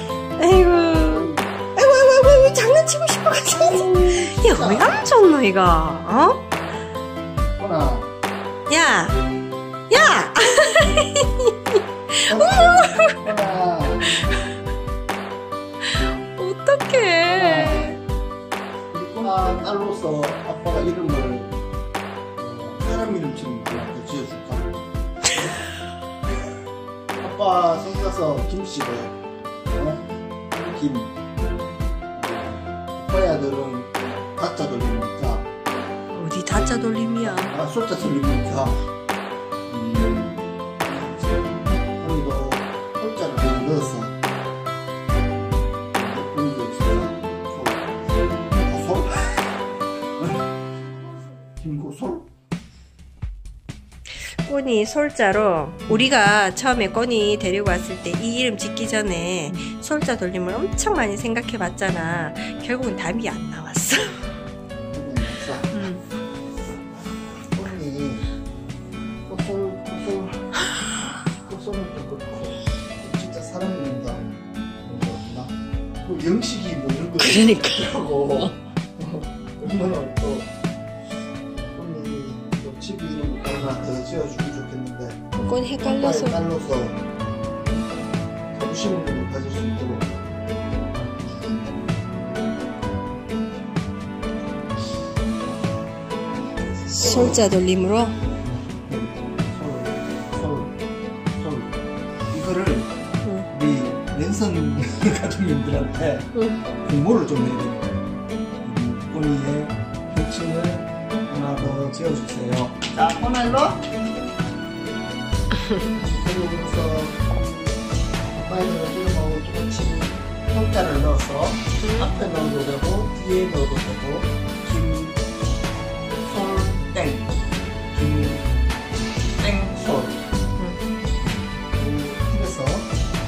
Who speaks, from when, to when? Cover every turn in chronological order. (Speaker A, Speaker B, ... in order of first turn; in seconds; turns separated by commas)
Speaker A: 0.4-6.4, Speaker B: 1.1-1.5, Speaker B: 3.6-5.0, Speaker B: 7.6-8.1, Speaker A: 8.7-9.2, Speaker A: 9.9-13.1, Speaker B: 12.3-14.3, Speaker A: 15.9-18.0, Speaker B: 17.3-17.9, Speaker B: 18.9-21.5, Speaker B: 22.4-24.8, Speaker B: 27.2-29.1, Speaker B: 29.7-31.1, Speaker B: 32.1-35.5, Speaker A: 36.1-37.5, Speaker B: 37.2-38.8, Speaker B: 39.7-44.1, Speaker B: 45.9-47.9, Speaker B: 48.6-49.5, Speaker B: 50.2-50.4, Speaker B: 51.6-52.3, Speaker A: 54.4-64.2, Speaker B: 64.9-65.8, Speaker A: 65.7-66.0, Speaker B: 67.5-68.3, Speaker B: 69.2-70.6, Speaker B: 71.3-80.5, Speaker A: 77.2-78.5, Speaker B: 81.7-85.2, Speaker A: 85.3-86.4, Speaker B: 85.8-87.0, Speaker B: 88.5-90.1, Speaker B: 91.0-91.9, Speaker A: 96.9-98.2, Speaker B: 97.0-97.5, Speaker B: 98.8-100.7, Speaker B: 101.3-101.8, Speaker B: 102.3-102.9, Speaker B: 103.5-106.3, Speaker A: 106.3-106.6, Speaker B: 106.8-107.9, Speaker B: 108.6-113.8, Speaker B: 115.9-117.7, Speaker B: 118.3-125.2, Speaker A: 121.8-122.2, Speaker B: 126.2-127.3, Speaker B: 127.9-128.5, Speaker B: 129.2-130.2, Speaker B: 131.2-132.9